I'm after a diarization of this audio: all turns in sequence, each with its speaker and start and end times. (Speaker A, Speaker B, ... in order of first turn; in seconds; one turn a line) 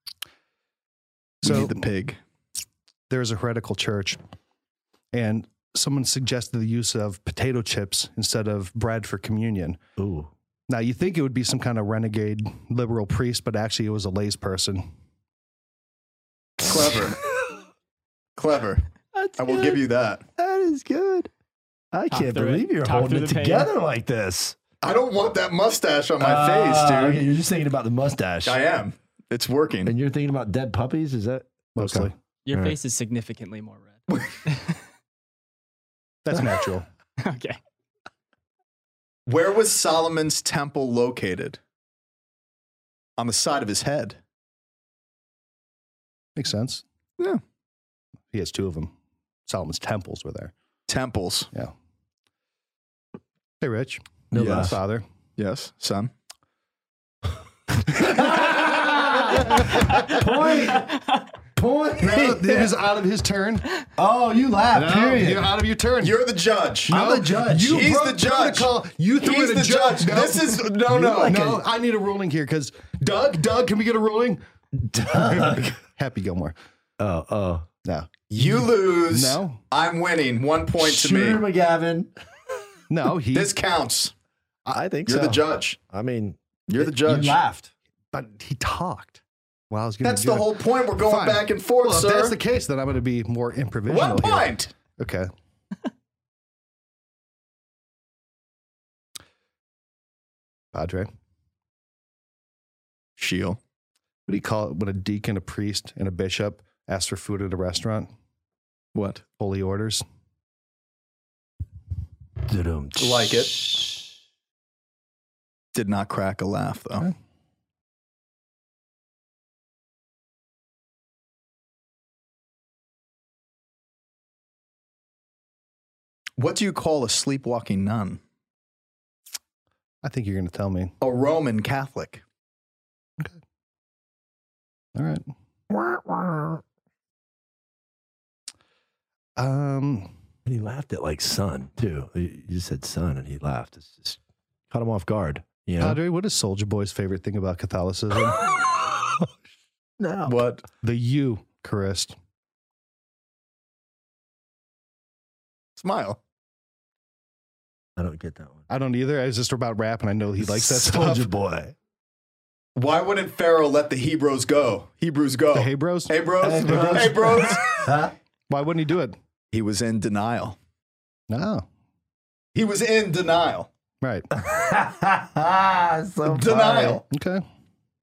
Speaker A: 1.4-2.2
Speaker B: 1.4-1.8
Speaker B: 3.1-4.2
Speaker B: 5.1-9.8
Speaker C: 10.0-10.3
Speaker B: 10.7-14.8
Speaker A: 16.6-17.2
Speaker A: 18.4-18.9
Speaker C: 19.1-19.8
Speaker A: 19.4-20.2
Speaker C: 20.4-21.3
Speaker C: 21.9-24.6
Speaker D: 22.1-23.7
Speaker A: 24.8-27.2
Speaker C: 26.2-28.6
Speaker A: 28.5-29.9
Speaker C: 29.9-32.7
Speaker B: 31.7-32.1
Speaker D: 32.5-34.8
Speaker B: 36.2-36.9
Speaker D: 37.2-37.6
Speaker A: 39.3-41.6
Speaker A: 43.2-44.2
Speaker B: 46.4-46.8
Speaker B: 48.3-48.9
Speaker B: 49.5-50.5
Speaker A: 50.9-51.5
Speaker B: 53.6-55.0
Speaker C: 54.3-54.8
Speaker A: 55.4-56.1
Speaker C: 57.9-61.0
Speaker B: 58.1-58.6
Speaker B: 59.3-60.2
Speaker C: 61.5-62.6
Speaker B: 62.0-63.7
Speaker C: 64.0-65.5
Speaker B: 64.7-66.2
Speaker A: 66.0-67.0
Speaker B: 66.9-70.7
Speaker C: 66.9-67.9
Speaker A: 67.6-71.4
Speaker C: 70.9-71.6
Speaker B: 71.2-74.4
Speaker C: 74.8-75.8
Speaker B: 75.0-76.5
Speaker C: 77.0-77.7
Speaker B: 77.8-79.6
Speaker A: 78.3-81.4
Speaker C: 80.8-82.1
Speaker B: 82.9-83.5
Speaker A: 83.3-84.1
Speaker C: 84.7-87.7
Speaker A: 85.1-85.8
Speaker A: 86.7-87.4
Speaker B: 88.1-89.2
Speaker B: 89.7-95.3
Speaker A: 90.0-92.4
Speaker A: 93.9-94.7
Speaker B: 100.7-101.1
Speaker A: 103.2-103.6
Speaker B: 104.3-108.1
Speaker A: 109.0-109.2
Speaker B: 109.4-110.0
Speaker C: 112.5-114.1
Speaker A: 113.0-113.6
Speaker A: 115.7-117.1
Speaker A: 126.4-128.2
Speaker B: 130.0-130.9
Speaker A: 131.0-132.2
Speaker B: 134.9-135.3
Speaker C: 135.7-136.6
Speaker B: 139.4-140.1
Speaker C: 140.4-144.2
Speaker C: 144.7-146.0
Speaker B: 145.8-148.5
Speaker C: 148.4-149.3
Speaker C: 150.0-150.4
Speaker A: 150.2-150.6
Speaker B: 150.8-152.1
Speaker A: 155.8-156.2
Speaker C: 158.0-158.6
Speaker B: 158.7-161.3
Speaker C: 160.4-161.7
Speaker A: 162.8-167.7
Speaker B: 165.5-167.2
Speaker C: 166.4-168.1
Speaker B: 168.5-169.2
Speaker A: 169.5-170.6
Speaker B: 171.3-171.7
Speaker A: 172.6-173.7
Speaker B: 174.0-174.3
Speaker C: 174.3-176.6
Speaker A: 176.3-177.0
Speaker B: 176.4-177.4